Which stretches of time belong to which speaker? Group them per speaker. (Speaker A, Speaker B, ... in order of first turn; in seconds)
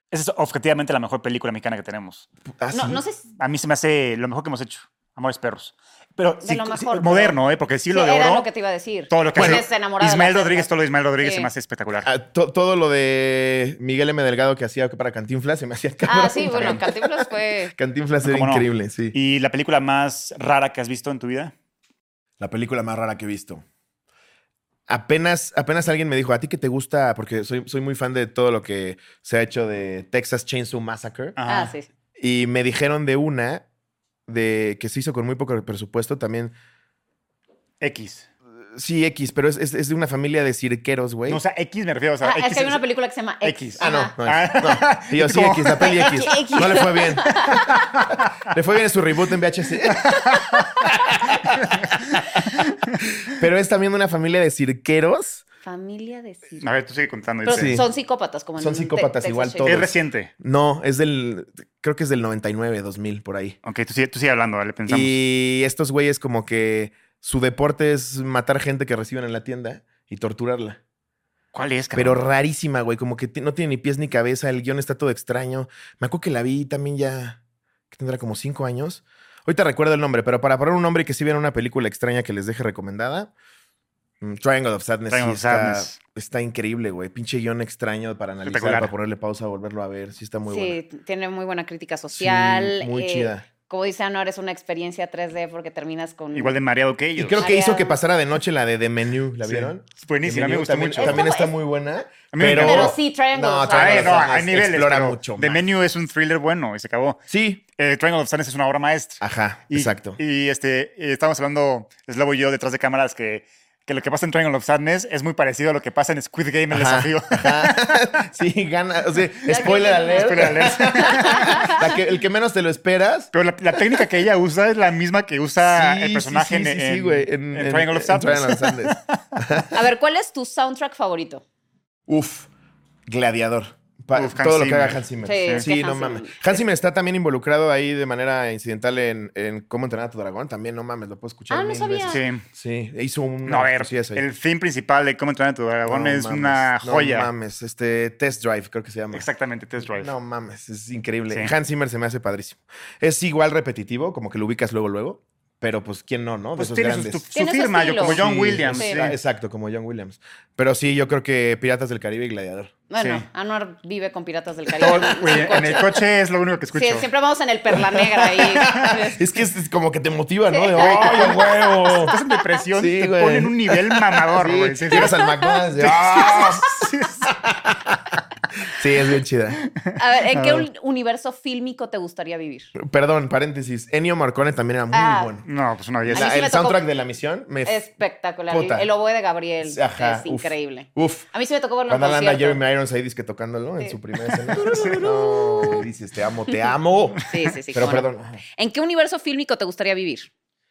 Speaker A: 0.1-2.3, 3.4-8.5, 9.1-12.1, 16.5-16.8, 18.2-21.5, 31.4-31.8, 37.8-38.3, 41.3-42.8, 43.4-48.3, 49.9-50.8, 51.5-53.0, 56.6-57.8, 59.6-60.3, 63.6-65.2, 71.5-72.2, 85.1-86.0, 88.4-88.9, 96.3-97.5, 99.4-101.2, 102.3-103.0, 103.7-107.2, 107.8-118.1, 119.5-121.8, 123.3-129.0, 134.1-135.7, 142.1-142.4, 143.4-147.3, 149.1-150.1, 156.6-159.2, 163.0-163.3, 164.8-167.1, 168.3-168.8, 170.7-175.2, 175.8-177.3, 179.7-180.7, 185.4-186.4, 194.5-195.1
Speaker B: 2.6-3.0, 9.4-9.6, 12.0-19.2, 22.4-23.6, 24.9-31.4, 32.2-33.6, 34.3-36.5, 38.7-41.4, 43.8-50.2, 50.8-51.7, 53.2-55.5, 57.5-57.9, 58.6-63.6, 64.9-70.8, 71.9-77.4, 77.9-83.3, 84.2-90.8, 92.1-93.5, 97.2-105.6, 107.3-107.6, 109.2-110.2, 116.7-123.3, 125.6-129.8, 132.1-132.5, 133.1-144.2, 145.8-149.2, 149.9-157.2, 158.0-162.8, 168.4-172.2, 172.7-179.6, 182.8-185.5, 186.1-187.8, 188.5-188.9, 189.6-191.3, 191.9-197.2, 197.7-198.4
Speaker C: 2.7-3.2, 6.4-7.4, 7.9-10.7, 11.2-11.5, 16.1-17.7, 31.5-31.9, 42.2-44.1, 45.8-47.8, 55.6-56.7, 57.5-59.9, 90.5-96.5, 97.4-98.0, 101.0-101.5, 102.6-104.4, 119.5-121.8, 129.7-131.4, 135.2-136.6, 141.5-142.2, 157.3-159.0, 162.9-166.0, 166.7-169.2, 170.5-172.2, 175.2-175.6, 180.0-182.7, 184.9-185.4, 186.1-186.8, 187.7-192.6, 194.5-195.8, 197.3-200.3